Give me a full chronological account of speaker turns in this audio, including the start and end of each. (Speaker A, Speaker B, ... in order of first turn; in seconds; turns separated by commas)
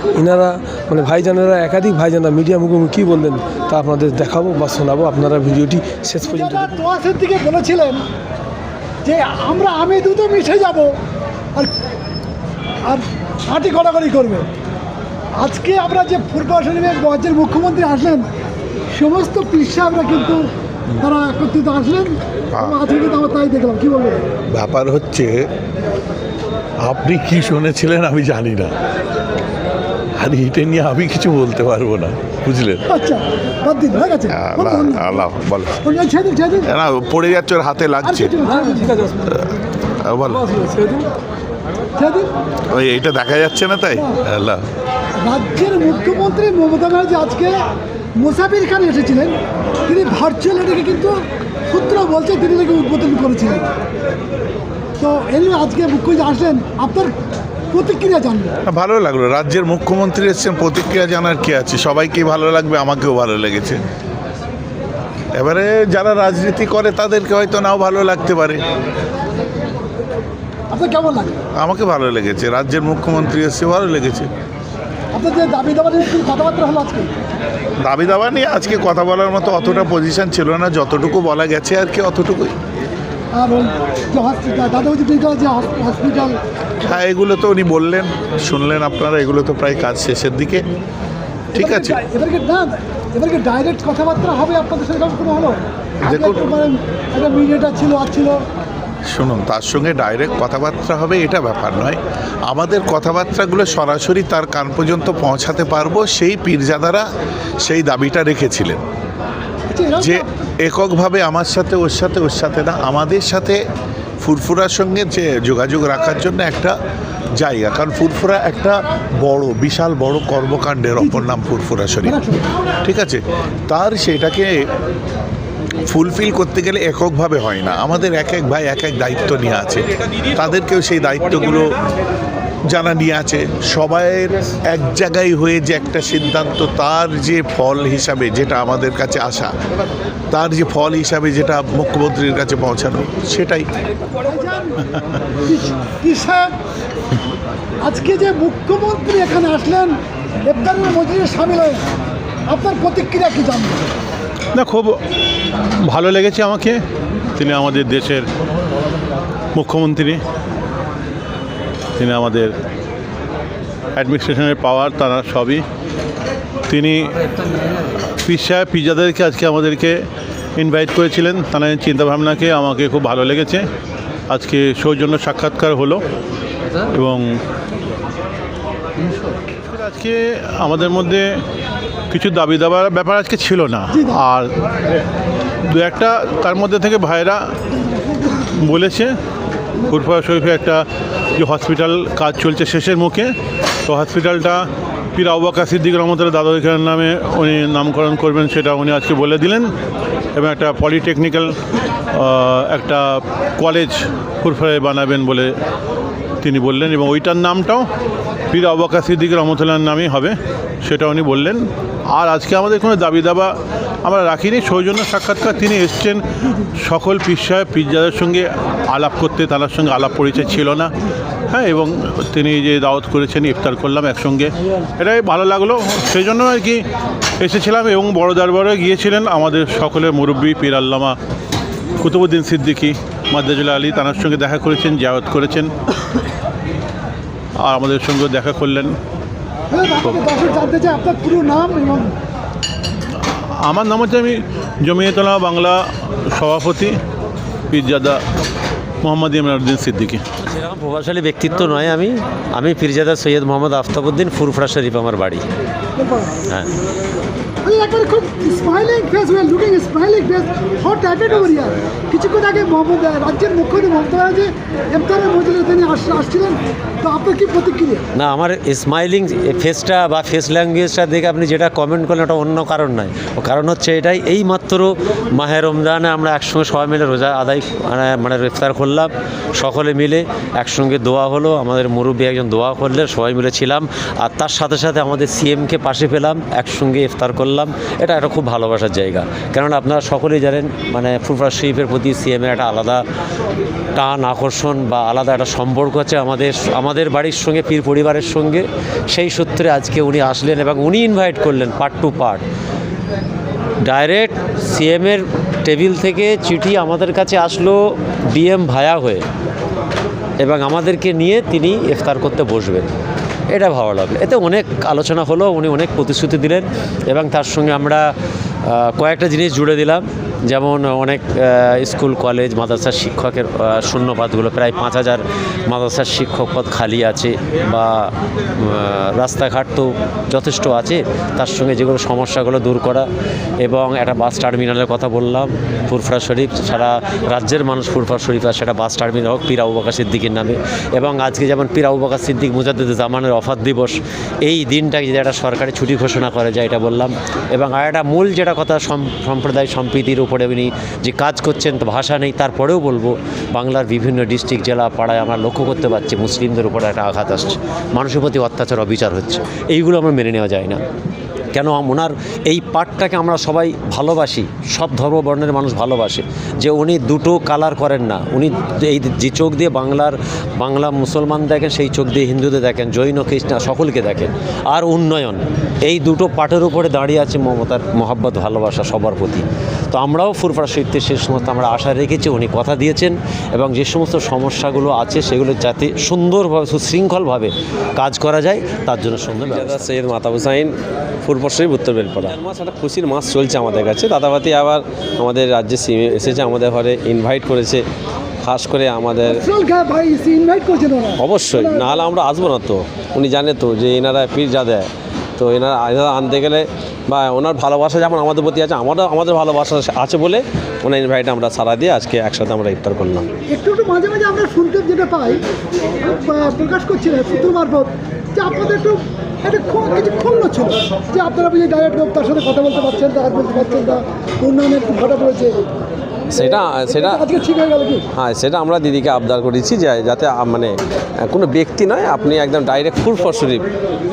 Speaker A: 0.1-6.7, Speaker B: 6.2-8.0, Speaker B: 9.0-10.9, Speaker B: 12.8-14.5, Speaker B: 15.4-18.3, Speaker B: 18.9-20.4, Speaker B: 21.0-24.2, Speaker C: 24.5-25.4, Speaker C: 26.8-28.7, Speaker C: 30.1-32.8, Speaker B: 32.9-35.2, Speaker C: 34.3-35.8, Speaker B: 35.8-36.7, Speaker C: 36.7-38.3, Speaker B: 38.0-38.9, Speaker A: 38.5-39.3, Speaker C: 40.0-40.5, Speaker A: 40.3-41.1, Speaker B: 42.0-42.3, Speaker C: 42.7-44.6, Speaker B: 45.2-47.6, Speaker B: 48.2-51.1, Speaker B: 51.7-53.7, Speaker B: 55.0-57.1, Speaker B: 57.7-58.5, Speaker C: 58.7-63.8, Speaker C: 65.3-68.6, Speaker B: 70.7-71.3, Speaker C: 71.6-74.3, Speaker B: 75.1-77.1, Speaker C: 77.8-82.5, Speaker B: 83.3-86.4, Speaker C: 86.8-90.7, Speaker C: 91.5-92.0, Speaker B: 91.5-98.4, Speaker C: 96.0-96.4, Speaker C: 99.1-107.0, Speaker C: 107.6-108.8, Speaker B: 109.7-110.2, Speaker C: 110.0-113.6, Speaker C: 114.2-116.8, Speaker C: 117.4-122.2, Speaker B: 121.0-121.3, Speaker B: 122.0-122.5, Speaker C: 122.8-124.6, Speaker C: 125.9-131.8, Speaker C: 132.7-139.5, Speaker C: 140.3-143.7, Speaker B: 144.2-144.8, Speaker B: 145.4-146.5, Speaker B: 147.8-151.8, Speaker B: 152.5-153.9, Speaker D: 154.5-155.0, Speaker D: 155.8-156.8, Speaker D: 157.3-158.2, Speaker D: 159.5-160.2, Speaker D: 162.0-162.5, Speaker D: 163.9-165.6, Speaker D: 166.7-167.2, Speaker D: 168.2-170.0, Speaker D: 170.6-173.7, Speaker D: 174.3-176.0, Speaker D: 176.9-177.4, Speaker D: 179.7-181.4, Speaker D: 182.1-184.5, Speaker D: 185.7-187.4, Speaker D: 188.4-189.1, Speaker D: 189.8-190.8, Speaker D: 191.4-193.3, Speaker D: 193.8-199.7, Speaker D: 200.3-201.5, Speaker D: 202.1-205.5, Speaker D: 206.4-207.9, Speaker D: 208.5-216.2, Speaker D: 216.8-220.9, Speaker D: 221.5-226.8, Speaker D: 227.4-231.2, Speaker D: 232.0-235.7, Speaker D: 237.6-239.0, Speaker B: 239.7-242.1, Speaker D: 243.2-247.0, Speaker D: 247.7-248.2, Speaker D: 249.0-250.2, Speaker E: 250.4-255.4, Speaker B: 255.9-256.4, Speaker B: 257.6-268.0, Speaker E: 268.1-293.0, Speaker E: 293.9-302.4, Speaker E: 303.8-309.2, Speaker E: 310.4-312.9, Speaker E: 313.5-318.1, Speaker E: 318.6-333.1, Speaker E: 333.6-360.8, Speaker E: 361.5-390.2, Speaker F: 389.4-397.8, Speaker F: 398.4-399.4, Speaker B: 399.2-402.1, Speaker F: 401.2-413.3, Speaker B: 413.5-415.4, Speaker B: 416.0-425.5, Speaker F: 426.3-427.1, Speaker B: 426.4-428.0, Speaker F: 428.2-433.7